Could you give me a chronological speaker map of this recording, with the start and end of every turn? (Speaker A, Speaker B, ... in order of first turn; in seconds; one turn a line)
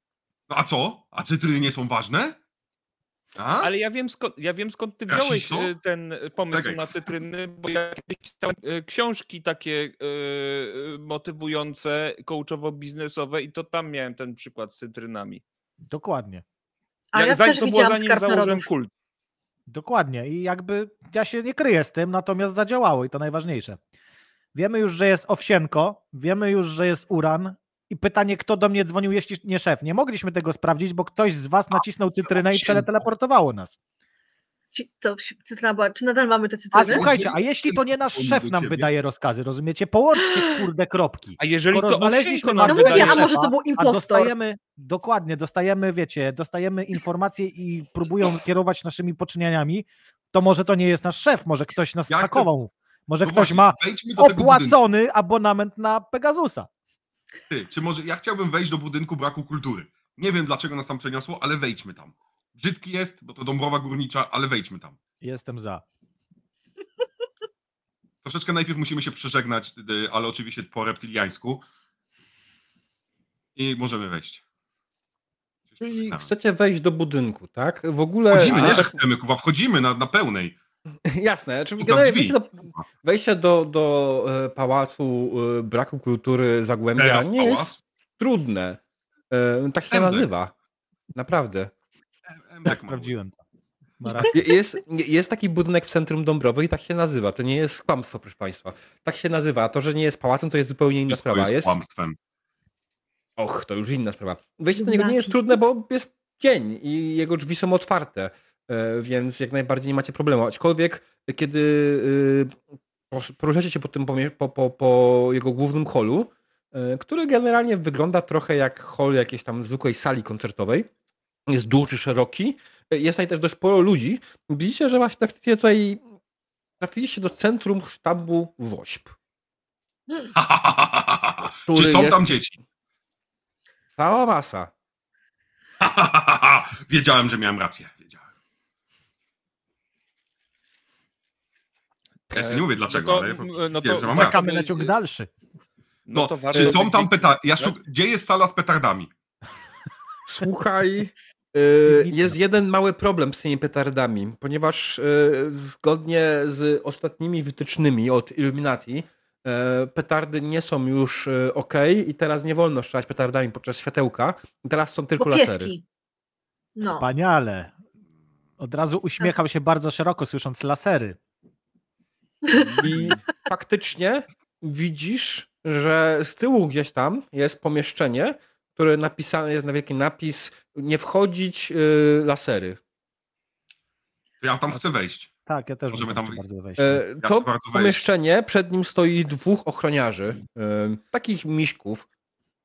Speaker A: 0.5-2.4
Speaker A: 3.4-3.7
Speaker B: 3.6-15.4
Speaker A: 5.1-5.7
Speaker A: 6.5-6.9
Speaker C: 15.9-16.4
Speaker D: 17.1-18.7
Speaker B: 17.1-18.9
Speaker C: 19.7-23.8
Speaker C: 24.5-33.8
Speaker A: 32.3-33.0
Speaker D: 34.7-37.1
Speaker C: 36.7-56.7
Speaker A: 36.9-38.9
Speaker B: 41.4-43.3
Speaker D: 42.6-44.3
Speaker A: 52.1-52.5
Speaker A: 53.2-54.8
Speaker A: 57.5-65.0
Speaker C: 65.2-65.8
Speaker A: 68.2-71.6
Speaker A: 73.5-74.4
Speaker A: 75.7-76.3
Speaker E: 75.8-79.0
Speaker A: 78.3-80.5
Speaker B: 78.5-78.8
Speaker E: 81.0-88.8
Speaker A: 81.8-82.8
Speaker A: 87.0-87.8
Speaker E: 89.3-90.5
Speaker A: 89.9-90.3
Speaker E: 91.1-91.7
Speaker A: 92.3-93.1
Speaker C: 92.7-93.4
Speaker C: 94.0-94.5
Speaker E: 94.3-101.8
Speaker A: 101.1-102.2
Speaker E: 103.4-112.6
Speaker D: 104.8-105.6
Speaker E: 113.1-120.9
Speaker E: 121.5-126.0
Speaker E: 126.8-129.1
Speaker A: 130.3-132.5
Speaker E: 131.7-132.3
Speaker E: 134.0-134.7
Speaker A: 135.8-138.2
Speaker B: 142.3-144.9
Speaker A: 142.3-144.4
Speaker C: 144.1-145.3
Speaker B: 146.1-147.8
Speaker A: 146.1-149.1
Speaker E: 146.5-146.8
Speaker E: 150.3-165.7
Speaker C: 151.8-152.3
Speaker D: 165.2-165.8
Speaker D: 166.8-167.1
Speaker C: 166.8-167.7
Speaker C: 168.6-171.2
Speaker D: 172.4-172.8
Speaker E: 172.6-182.8
Speaker A: 184.4-185.3
Speaker C: 185.4-187.0
Speaker A: 185.9-186.4
Speaker E: 186.8-192.1
Speaker A: 187.2-188.0